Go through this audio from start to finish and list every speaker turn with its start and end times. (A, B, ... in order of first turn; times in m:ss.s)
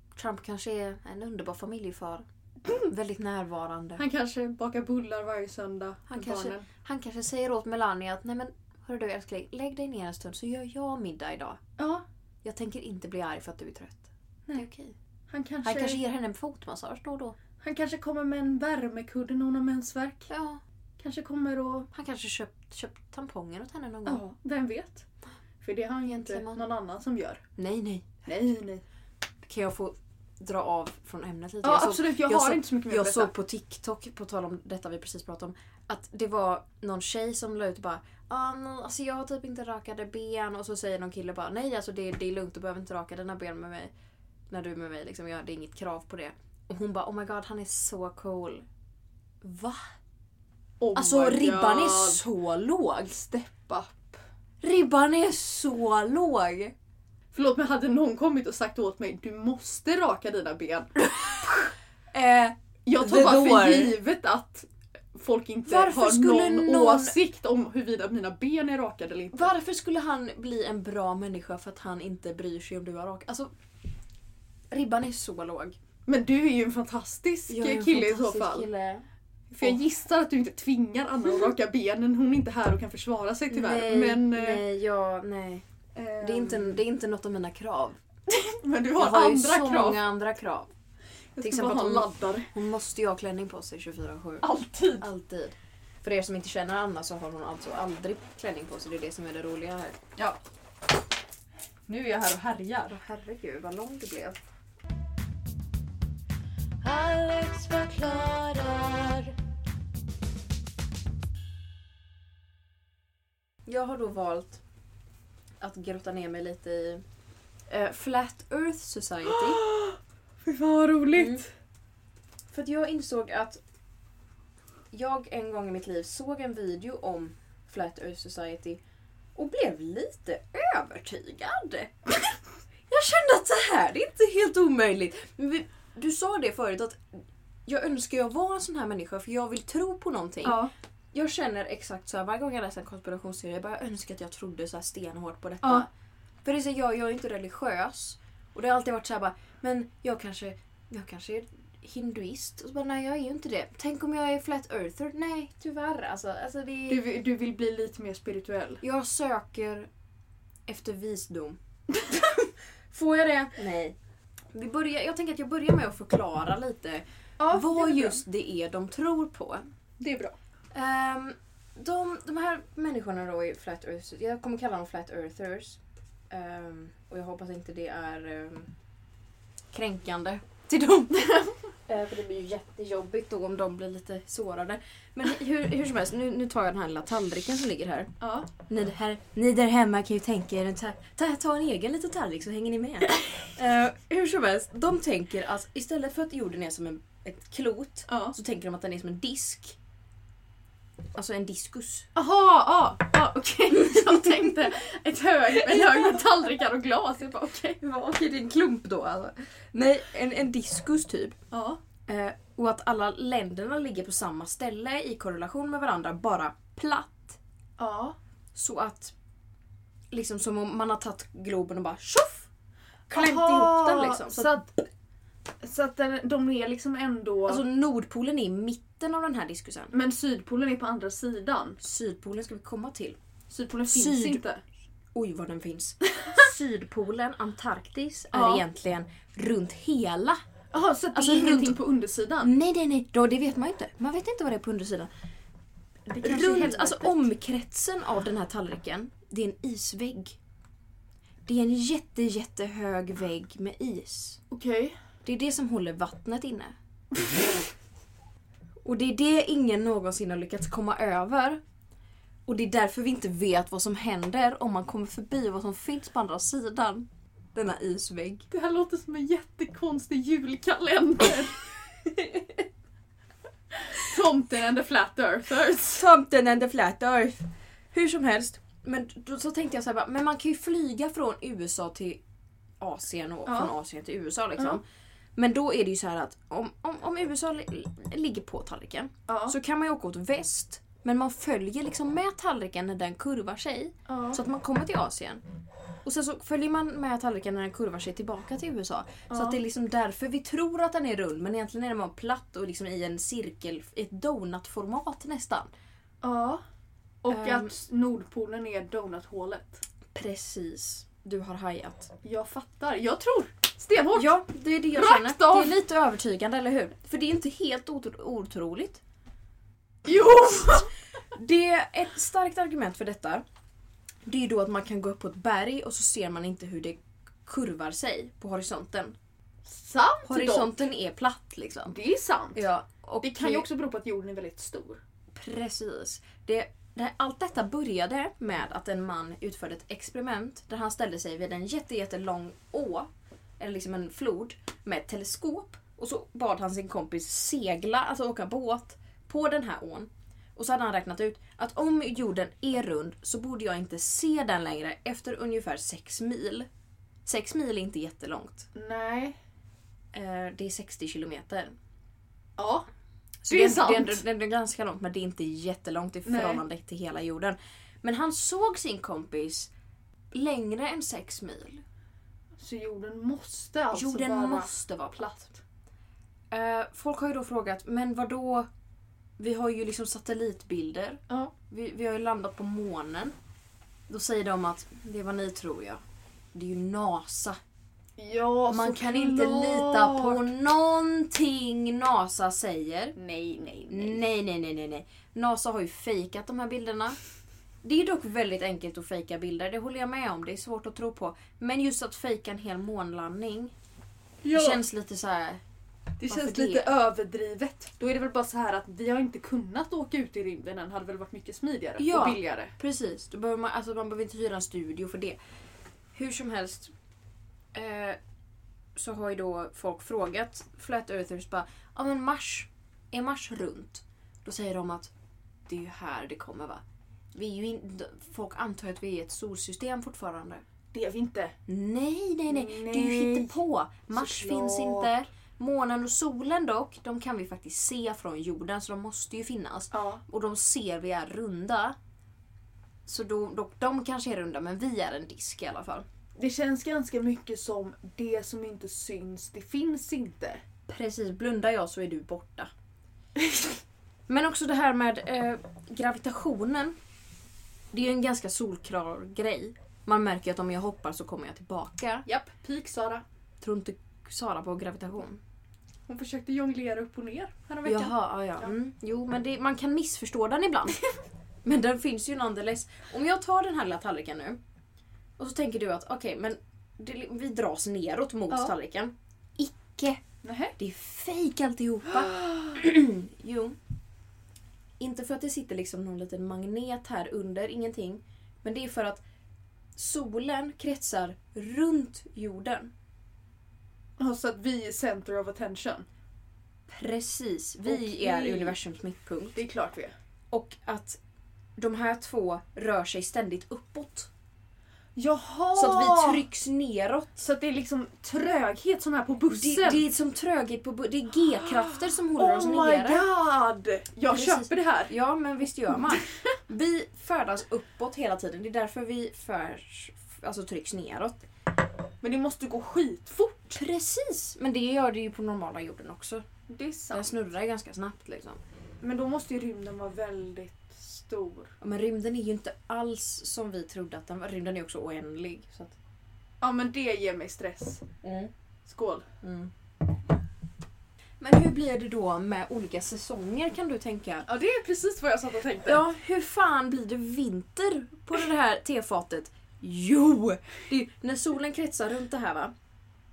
0:00.1-0:02.2 A
0:02.8-0:04.0 A
0:04.0-0:06.6 B
0:06.1-0:11.6 A
0:11.8-0:12.0 B
0:12.4-0:14.9 A
0:15.3-0:16.0 B
0:15.6-0:17.4 A
0:17.6-0:20.3 B
0:20.3-0:20.6 A
0:21.0-0:21.9 B
0:21.9-0:24.2 A
0:24.0-0:25.0 B
0:25.6-0:27.4 B
0:26.0-0:26.7 A
0:27.6-0:28.2 A
0:28.2-0:28.8 B
0:29.4-0:43.9 A
0:31.6-0:33.3 B
0:44.5-0:48.6 A
0:49.4-0:49.8 A
0:50.8-0:52.2 B
0:50.9-0:53.2 A
0:53.2-0:54.2 B
0:54.6-0:56.7 A
0:57.3-1:00.9 B
1:02.1-1:04.0 A
1:02.8-1:09.5 B
1:05.6-1:07.2 A
1:09.3-1:13.5 A
1:14.7-1:15.8 A
1:16.0-1:18.7 B
1:17.5-1:19.0 A
1:19.5-1:24.6 B
1:23.5-1:25.6 A
1:25.9-1:26.8 B
1:26.2-1:28.0 A
1:28.3-1:30.0 B
1:28.9-1:30.7 A
1:31.4-1:32.5 B
1:31.4-1:34.5 A
1:34.4-1:35.1 B
1:35.0-1:40.0 A
1:41.9-1:43.0 B
1:42.9-1:44.4 A
1:46.8-1:49.3 B
1:53.6-1:54.6 A
1:55.6-1:57.0 A
1:57.7-1:59.6 A
1:59.3-2:01.4 B
2:01.1-2:01.4 A
2:02.5-2:03.6 A
2:04.9-2:08.8 A
2:09.4-2:12.1 A
2:12.9-2:20.6 A
2:20.4-2:20.7 B
2:21.1-2:25.9 A
2:25.6-2:25.9 B
2:26.4-2:37.0 A
2:36.9-2:38.8 B
2:38.8-2:39.9 A
2:40.7-2:41.6 A
2:42.9-2:44.0 A
2:44.5-2:49.6 A
2:47.4-2:48.2 B
2:50.0-2:50.3 B
2:50.7-2:55.8 A
2:56.3-2:58.7 A
2:59.7-3:01.2 A
3:01.2-3:01.5 B
3:01.9-3:08.1 A
3:08.2-3:08.5 B
3:08.7-3:19.8 A
3:18.1-3:18.3 B
3:21.1-3:22.1 A
3:22.1-3:27.8 B
3:23.7-3:24.5 A
3:25.5-3:26.2 A
3:27.8-3:31.4 A
3:31.5-3:31.8 B
3:32.1-3:37.4 A
3:37.8-3:38.2 B
3:38.5-3:39.1 A
3:40.1-3:42.5 A
3:43.1-3:44.7 B
3:43.1-3:44.5 A
3:45.6-3:47.6 B
3:47.4-3:49.9 A
3:49.9-3:51.8 B
3:51.8-3:53.2 A
3:53.5-3:54.6 B
3:53.9-3:54.4 A
3:55.1-4:00.4 A
3:58.3-3:58.6 B
4:00.7-4:02.5 B
4:01.1-4:01.8 A
4:02.4-4:05.1 A
4:06.1-4:07.3 B
4:06.1-4:10.4 A
4:11.4-4:14.4 A
4:14.5-4:15.0 B
4:15.2-4:16.7 A
4:18.8-4:21.6 A
4:22.5-4:28.4 A
4:28.5-4:31.6 B
4:32.2-4:32.5 A
4:33.9-4:36.1 B
4:35.9-4:42.2 A
4:42.8-4:44.8 A
4:43.4-4:43.7 B
4:45.4-4:55.4 A
4:49.3-4:49.6 B
4:54.1-4:54.4 B
4:56.0-5:05.7 A
4:59.3-4:59.6 B
5:06.2-5:06.6 B
5:07.2-5:09.8 B
5:07.3-5:07.7 A
5:10.1-5:12.1 A
5:12.2-5:14.4 B
5:14.1-5:19.0 A
5:14.9-5:15.8 B
5:20.0-5:20.9 B
5:21.3-5:23.4 A
5:24.2-5:29.2 A
5:29.6-5:30.8 B
5:30.2-5:32.0 A
5:31.9-5:32.6 B
5:32.5-5:33.6 A
5:33.2-5:35.0 B
5:35.3-5:56.7 A
5:57.2-5:58.7 A
5:58.7-5:59.4 B
6:00.1-6:01.8 A
6:02.6-6:02.9 B
6:03.4-6:09.7 A
6:03.5-6:04.2 B
6:06.2-6:06.6 B
6:10.3-6:11.8 A
6:12.6-6:15.6 B
6:13.9-6:15.5 A
6:16.5-6:18.7 A
6:19.4-6:23.3 A
6:24.1-6:26.0 A
6:26.5-6:27.6 A
6:28.2-6:30.5 B
6:28.7-6:33.2 A
6:33.2-6:34.2 B
6:33.9-6:37.2 A
6:37.8-6:43.7 A
6:44.4-6:44.8 B
6:44.5-6:45.6 A
6:46.2-6:52.7 B
6:46.3-6:46.9 A
6:52.0-6:55.4 A
6:56.1-6:56.9 A
6:57.7-6:58.2 A
6:59.0-7:05.1 A
7:05.7-7:06.8 A
7:07.3-7:10.6 A
7:10.9-7:11.6 B
7:11.7-7:22.0 A
7:12.5-7:13.6 B
7:14.1-7:15.1 B
7:19.9-7:20.2 B
7:23.0-7:26.0 A
7:26.4-7:30.6 B
7:30.9-7:32.7 A
7:34.3-7:37.0 A
7:37.9-7:42.2 A
7:42.2-7:43.2 B
7:43.6-7:45.4 A
7:46.1-7:48.7 B
7:47.8-7:51.0 A
7:51.6-7:54.6 A
7:55.4-8:00.2 A
8:00.4-8:00.7 B
8:00.8-8:03.8 A
8:02.2-8:02.6 B
8:05.0-8:09.2 A
8:10.0-8:12.9 A
8:14.2-8:16.0 B
8:16.9-8:19.6 A
8:17.8-8:18.8 B
8:19.5-8:20.1 B
8:20.5-8:21.2 A
8:21.8-8:24.3 A
8:25.2-8:26.4 B
8:25.7-8:27.4 A
8:27.4-8:30.0 B
8:29.5-8:33.2 A
8:31.5-8:35.1 B
8:34.3-8:41.4 A
8:42.2-8:43.8 B
8:43.7-8:46.4 A
8:46.7-8:47.3 B
8:47.1-8:48.6 A
8:49.0-8:51.7 B
8:51.8-8:56.0 A
8:56.6-8:58.0 B
8:58.2-8:58.5 A
8:58.8-8:59.2 B
8:59.4-8:59.7 A
9:01.4-9:04.5 A
9:04.4-9:06.0 B
9:05.8-9:12.7 A